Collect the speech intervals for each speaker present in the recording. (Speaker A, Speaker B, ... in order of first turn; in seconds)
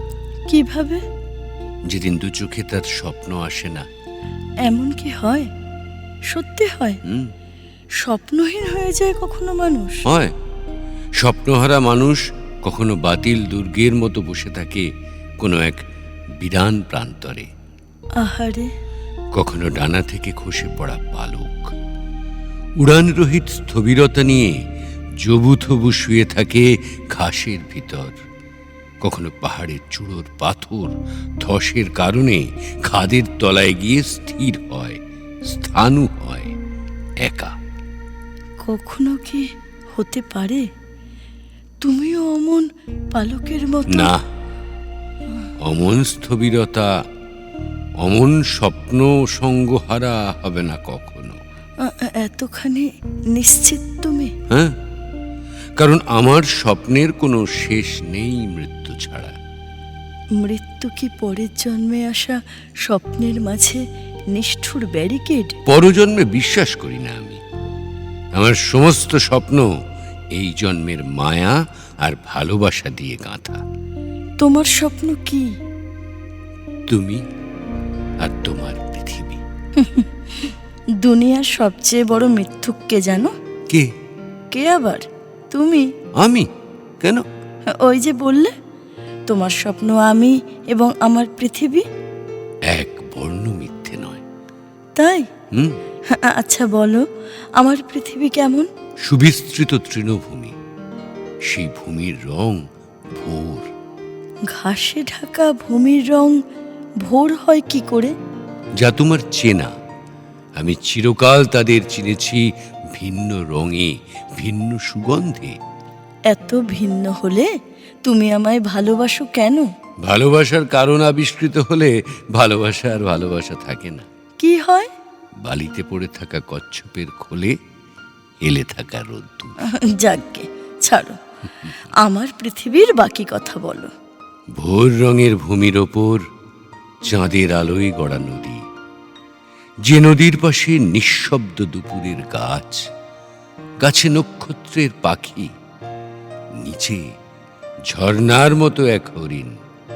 Speaker A: 0.5-1.0, 4.6-5.5, 6.3-7.0, 8.0-10.1, 18.2-18.7, 38.6-40.7, 41.8-44.1, 51.8-54.3, 60.4-65.5, 74.4-75.5, 79.8-83.3, 84.5-85.9, 87.8-88.5, 89.3-91.8, 95.0-95.3, 96.1-97.0, 97.6-98.7, 104.5-106.3, 107.0-108.1, 116.3-117.5, 118.0-119.7, 124.4-124.9, 129.9-133.9
Speaker B: 1.9-3.9, 7.0-7.3, 10.1-10.3, 11.2-14.9, 15.4-15.8, 16.4-17.5, 19.3-21.7, 22.8-24.6, 25.2-28.2, 29.0-36.5, 37.2-37.5, 43.9-44.2, 45.6-47.0, 48.0-51.4, 54.5-54.7, 55.8-59.3, 65.7-67.4, 68.3-69.7, 70.3-73.6, 76.9-77.2, 78.2-79.4, 86.2-86.5, 92.7-94.2, 99.0-100.5, 101.5-102.6, 103.1-103.7, 108.8-109.7, 110.6-115.5, 120.0-124.1, 125.4-127.6, 128.4-129.6, 134.6-136.2, 137.0-138.6, 139.8-142.9, 143.8-145.5, 146.6-147.1, 147.9-149.6